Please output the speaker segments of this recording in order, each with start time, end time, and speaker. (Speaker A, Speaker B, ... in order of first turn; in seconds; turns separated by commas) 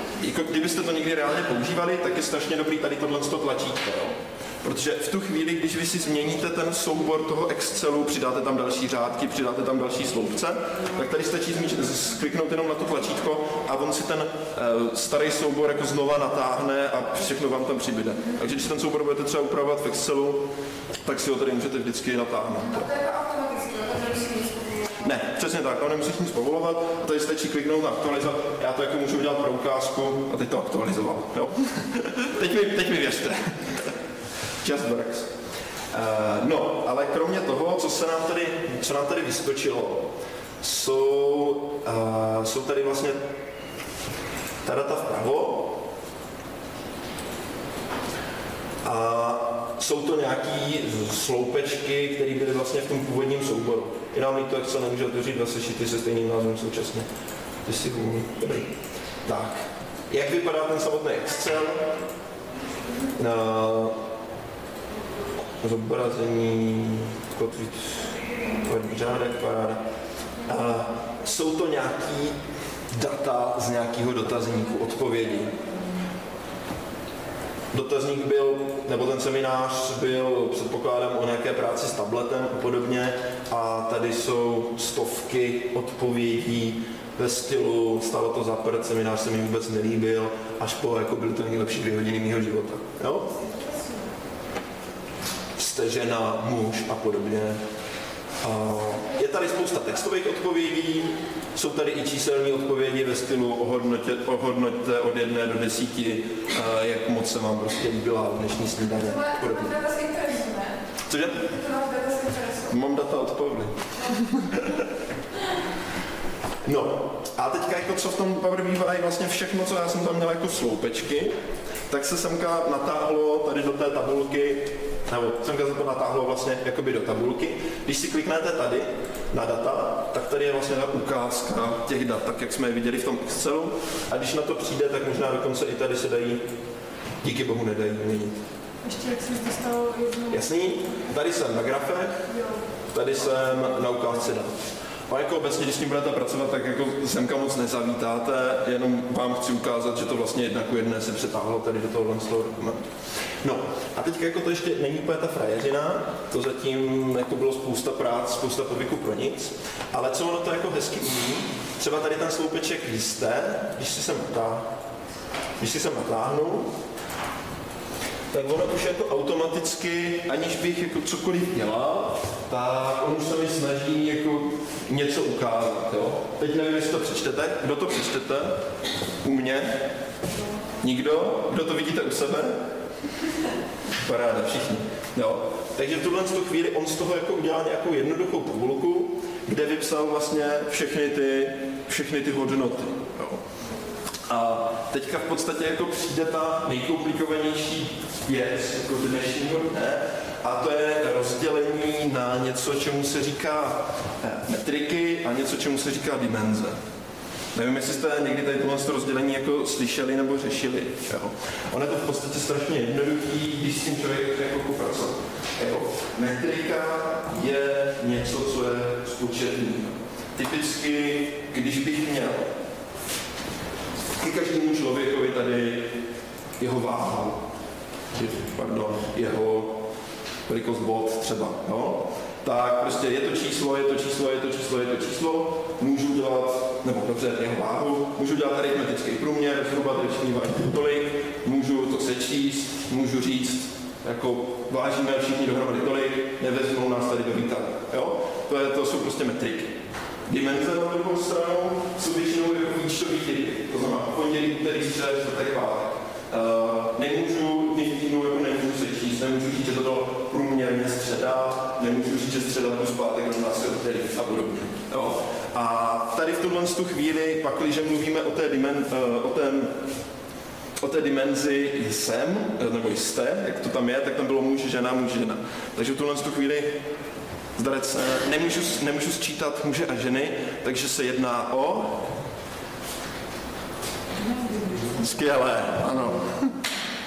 Speaker A: 0.2-20.5, Speaker A: 21.0-22.9, Speaker B: 22.7-25.0, Speaker A: 25.0-33.9, Speaker A: 34.6-35.3, Speaker A: 35.9-40.1, Speaker A: 40.6-43.2, Speaker A: 44.6-45.8, Speaker A: 48.8-57.1, Speaker A: 57.6-61.9, Speaker A: 63.1-64.0, Speaker A: 65.6-69.8, Speaker A: 70.5-72.4, Speaker A: 72.9-75.5, Speaker A: 77.7-93.3, Speaker A: 95.6-97.6, Speaker A: 98.4-109.8, Speaker B: 109.1-110.8, Speaker A: 111.1-111.5, Speaker B: 111.4-112.7, Speaker A: 112.7-114.9, Speaker A: 116.6-121.3, Speaker A: 121.9-136.4, Speaker A: 137.2-138.4, Speaker C: 138.8-140.7, Speaker A: 140.3-142.2, Speaker C: 142.3-142.6, Speaker A: 142.9-144.5, Speaker A: 145.1-152.8, Speaker A: 153.4-164.7, Speaker A: 165.6-166.7, Speaker A: 168.3-178.6, Speaker A: 179.2-179.8, Speaker A: 180.8-182.6, Speaker A: 184.0-193.4, Speaker A: 194.3-206.8, Speaker A: 207.5-222.5, Speaker A: 224.2-225.9, Speaker A: 226.6-227.4, Speaker A: 228.1-229.8, Speaker A: 230.5-249.7, Speaker A: 250.3-269.7, Speaker A: 270.8-276.8, Speaker A: 277.6-282.1, Speaker A: 284.9-286.6